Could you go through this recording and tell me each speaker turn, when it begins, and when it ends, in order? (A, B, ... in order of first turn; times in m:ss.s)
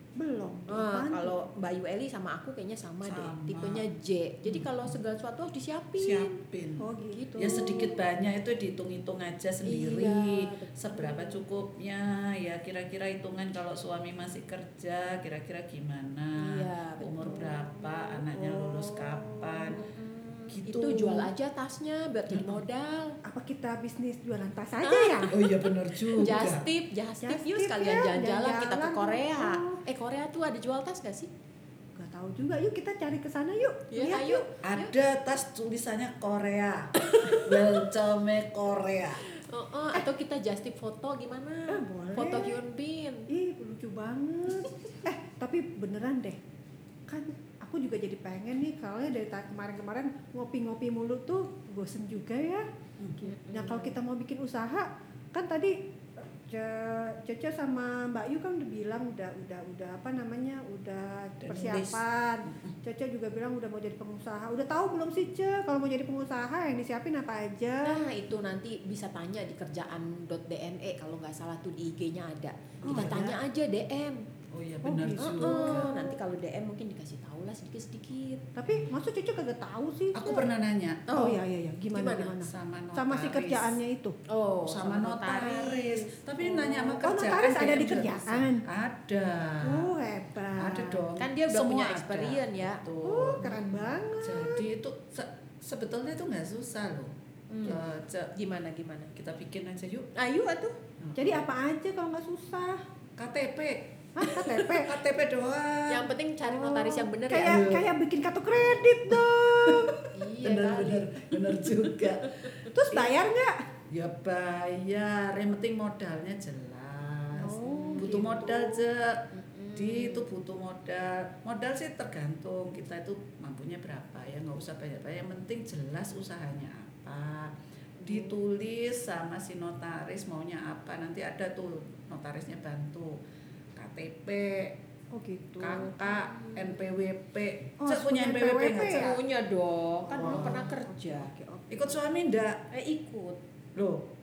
0:00.2-0:01.4 A
0:00.7-0:06.4 B
0:03.0-0:03.9 C
0:04.4-0:04.7 C
0:06.0-0:19.8 C
0:06.8-0:07.7 A
0:07.1-0:08.0 B
0:09.6-0:11.4 B
0:16.4-0:17.5 B
0:17.2-0:19.8 A
0:19.7-0:23.2 B
0:20.5-0:21.3 C
0:22.3-0:22.6 C
0:23.2-0:25.4 A
0:24.8-0:31.3 B
0:25.3-0:26.7 C
0:27.2-0:29.8 A
0:32.0-0:34.4 A
0:33.9-0:34.9 B
0:34.6-0:39.2 C
0:37.0-0:37.7 B
0:39.3-0:43.3 B
0:41.7-0:42.6 A
0:43.3-0:46.4 A
0:47.1-0:52.6 A
0:53.2-0:55.8 A
0:53.2-0:54.0 B
0:56.3-1:08.0 A
1:01.4-1:02.7 C
1:07.8-1:14.2 B
1:12.8-1:13.4 A
1:12.8-1:13.2 C
1:14.5-1:15.9 C
1:14.8-1:16.2 A
1:15.2-1:18.5 B
1:18.6-1:20.5 A
1:18.7-1:18.9 C
1:20.1-1:21.1 C
1:21.1-1:21.4 B
1:21.1-1:24.2 A
1:21.9-1:22.4 B
1:22.4-1:23.8 C
1:24.3-1:26.8 B
1:24.7-1:29.9 C
1:26.6-1:28.6 A
1:29.6-1:31.2 A
1:30.6-1:38.3 C
1:31.2-1:32.8 B
1:33.0-1:34.6 A
1:37.5-1:37.8 B
1:38.4-1:39.1 B
1:39.2-1:40.1 C
1:40.1-1:40.8 B
1:41.0-1:41.4 C
1:41.2-1:42.8 A
1:43.2-1:46.1 C
1:44.2-1:45.0 A
1:45.9-1:47.8 B
1:46.4-1:50.1 A
1:47.4-1:47.9 C
1:49.7-1:53.2 C
1:50.1-1:52.7 B
1:52.7-1:53.6 A
1:53.9-2:13.2 C
1:57.4-1:58.6 A
1:57.6-1:58.3 B
1:59.3-2:00.3 B
2:08.0-2:08.3 B
2:13.8-2:14.8 C
2:15.1-2:15.9 A
2:15.6-2:19.2 C
2:16.0-2:16.8 B
2:17.8-2:19.2 A
2:18.9-2:21.3 B
2:20.1-2:22.0 A
2:20.2-2:20.7 C
2:21.7-2:22.6 C
2:22.7-2:23.4 B
2:23.8-2:24.1 C